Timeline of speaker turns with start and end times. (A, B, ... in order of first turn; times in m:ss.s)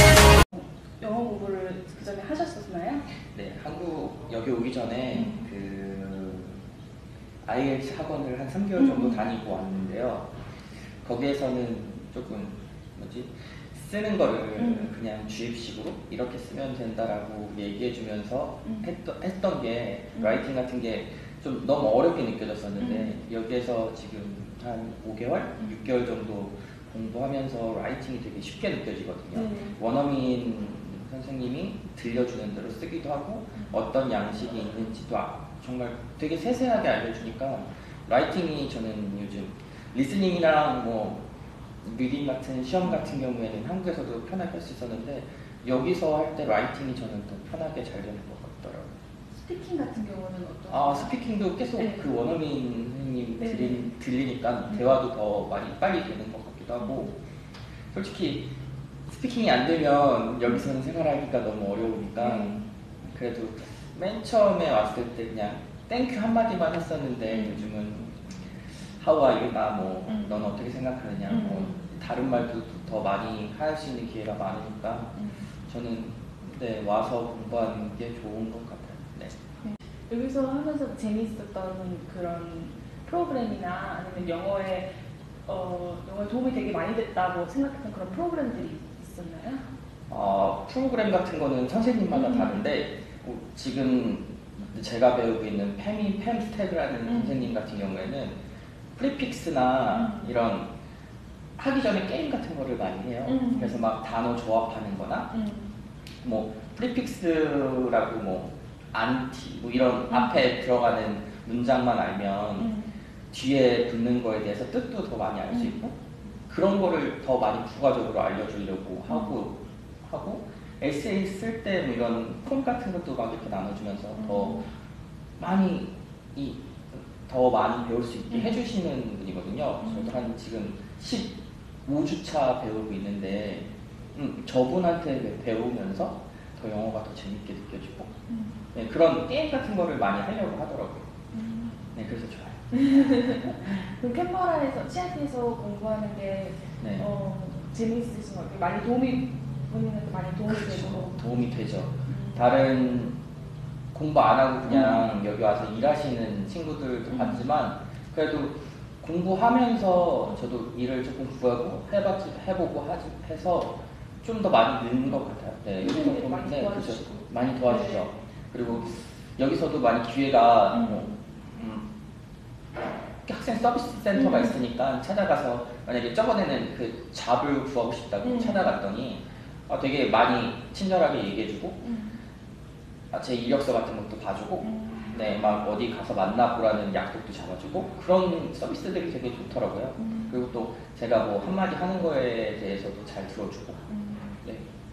0:00.5-0:03.1 A
0:03.3-0:06.6 B
0:05.1-0:05.4 A
0:07.4-0:10.3 B
0:08.8-0:09.2 A
0:11.0-0:41.2 B
0:14.6-0:14.9 A
0:20.2-0:20.4 A
0:22.8-0:23.1 A
0:29.3-0:29.8 A
0:41.8-0:48.9 B
0:49.4-0:51.1 A
0:50.7-0:57.1 B
0:51.8-0:52.0 A
0:53.4-0:53.9 A
0:56.8-0:57.1 A
0:57.9-0:58.5 B
0:59.1-1:19.4 B
1:02.2-1:02.7 A
1:07.3-1:07.6 A
1:10.1-1:10.4 A
1:11.3-1:11.8 A
1:15.2-1:15.5 A
1:19.6-1:24.9 A
1:25.5-1:29.6 A
1:30.1-1:38.4 B
1:32.1-1:32.6 A
1:37.1-1:37.5 A
1:39.0-1:40.7 B
1:39.9-1:40.4 A
1:41.6-1:45.3 B
1:43.3-1:43.8 A
1:45.3-1:45.7 A
1:46.2-1:52.7 B
1:50.1-1:50.3 A
1:52.6-1:52.9 A
1:53.3-1:56.0 B
1:55.5-1:55.8 A
1:56.5-2:04.7 B
1:59.1-1:59.3 A
2:04.2-2:04.6 A
2:05.4-2:18.1 B
2:08.3-2:08.6 A
2:09.8-2:10.2 A
2:18.3-2:18.6 A
2:18.7-2:21.1 B
2:21.3-2:21.8 A
2:21.9-2:23.8 B
2:22.7-2:31.3 A
2:26.8-2:27.1 B
2:30.5-2:33.2 B
2:32.1-2:32.5 A
2:33.9-2:51.9 B
2:34.7-2:35.0 A
2:37.1-2:37.4 A
2:45.8-2:48.1 A
2:50.7-2:51.2 A
2:53.3-3:01.8 B
2:54.1-2:54.6 A
2:58.2-2:58.7 A
3:01.8-3:02.2 A
3:03.1-3:13.9 B
3:04.6-3:05.3 A
3:10.0-3:10.4 A
3:13.9-3:14.4 A